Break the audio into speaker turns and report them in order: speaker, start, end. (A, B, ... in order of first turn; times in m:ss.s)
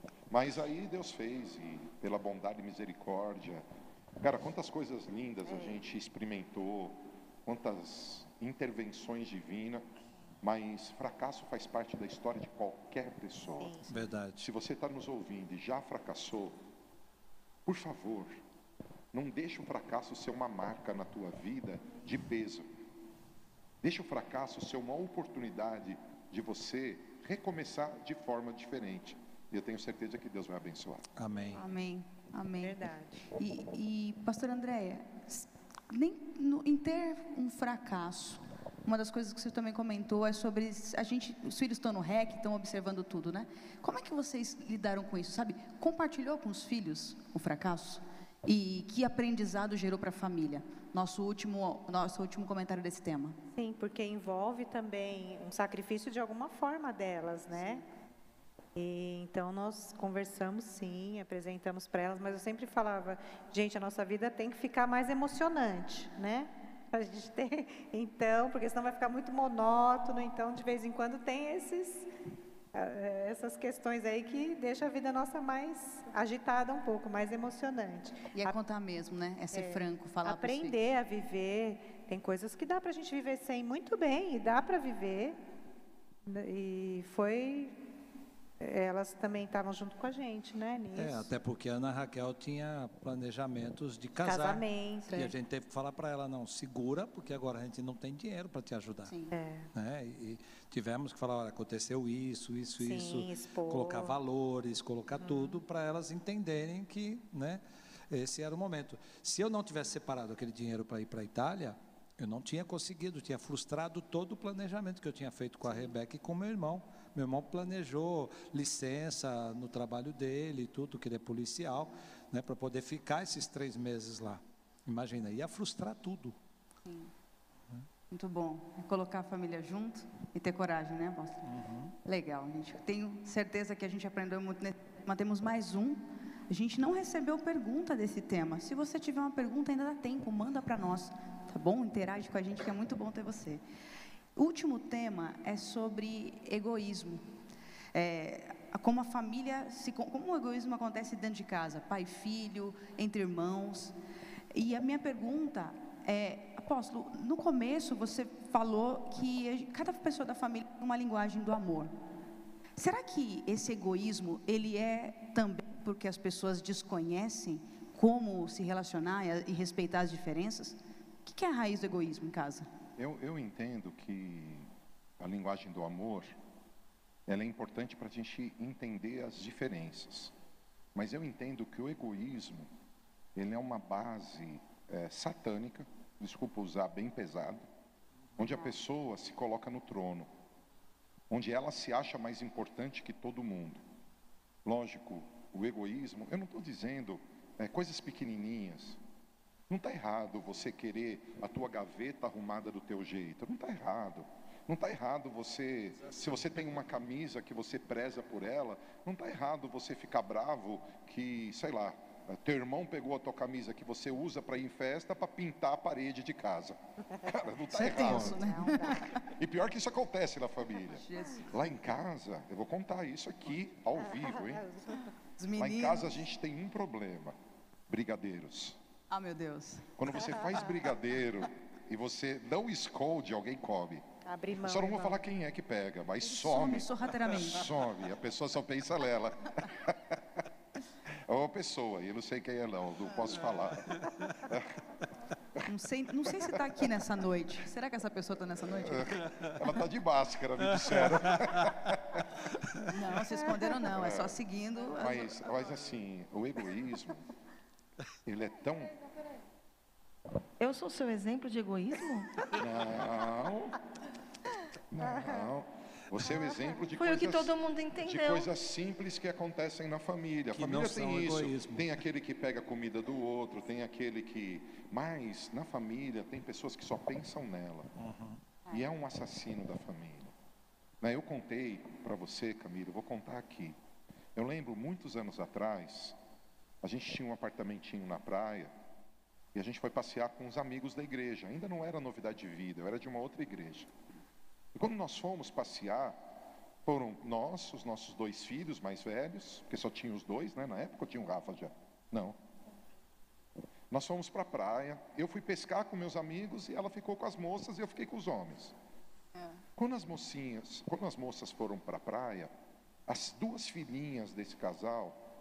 0:00.3-0:03.6 A
0:04.2-0:09.9 A
0:10.4-0:13.8 A
0:13.6-0:13.9 B
0:13.9-0:14.4 C
0:14.4-0:16.6 A
0:17.6-0:18.4 A
0:19.1-0:22.7 A
0:23.8-0:31.0 A
0:31.2-0:31.6 C
0:31.5-0:32.8 D
0:32.6-0:33.3 B
0:33.4-0:53.4 D
0:53.6-0:57.8 B
0:58.8-1:12.1 B
1:12.7-1:18.6 B
1:18.3-1:20.8 D
1:19.5-1:25.4 B
1:26.2-1:27.8 B
1:28.6-1:31.3 B
1:31.0-1:39.2 C
1:34.2-1:35.3 B
1:39.1-1:39.4 D
1:39.3-1:39.7 B
1:39.7-2:06.4 C
1:42.8-1:44.2 B
1:45.2-1:45.6 B
2:06.8-2:07.1 D
2:08.1-2:11.4 D
2:11.4-2:12.0 C
2:12.0-2:23.6 D
2:24.4-2:27.3 D
2:27.9-2:34.0 D
2:34.5-2:42.0 D
2:42.8-2:52.7 D
2:53.0-2:56.4 A
2:57.3-3:00.3 A
3:01.0-3:02.7 A
3:03.4-3:07.7 A
3:08.4-3:10.3 A
3:08.4-3:08.7 D
3:11.3-3:13.8 A
3:14.6-3:19.0 A
3:19.7-3:44.6 A
3:26.0-3:26.9 C
3:37.7-3:39.3 D
3:37.8-3:39.1 B
3:40.9-3:41.6 D
3:44.1-3:45.1 B
3:44.9-3:46.2 D
3:45.6-3:47.4 A
3:47.9-3:48.8 A
3:49.1-3:49.9 D
3:50.0-3:54.0 A
3:54.2-3:55.2 B
3:54.6-4:00.4 A
3:56.2-3:57.7 D
4:01.3-4:04.8 A
4:03.8-4:04.4 C
4:05.6-4:09.2 D
4:08.7-4:12.3 A
4:10.7-4:11.8 C
4:12.9-4:15.4 D
4:13.9-4:14.4 A
4:14.9-4:17.3 A
4:18.3-4:18.9 A
4:20.6-4:22.4 E
4:22.6-4:23.8 A
4:24.9-4:37.9 A
4:27.0-4:28.5 E
4:30.5-4:31.9 C
4:38.0-4:38.4 C
4:38.7-4:40.3 A
4:41.0-4:43.8 A
4:44.4-4:46.2 A
4:46.8-4:48.8 A
4:49.5-4:53.9 A
4:54.7-4:56.2 A
4:56.8-5:02.4 A
5:03.9-5:08.8 A
5:09.3-5:09.6 D
5:09.8-5:12.5 A
5:13.1-5:15.2 A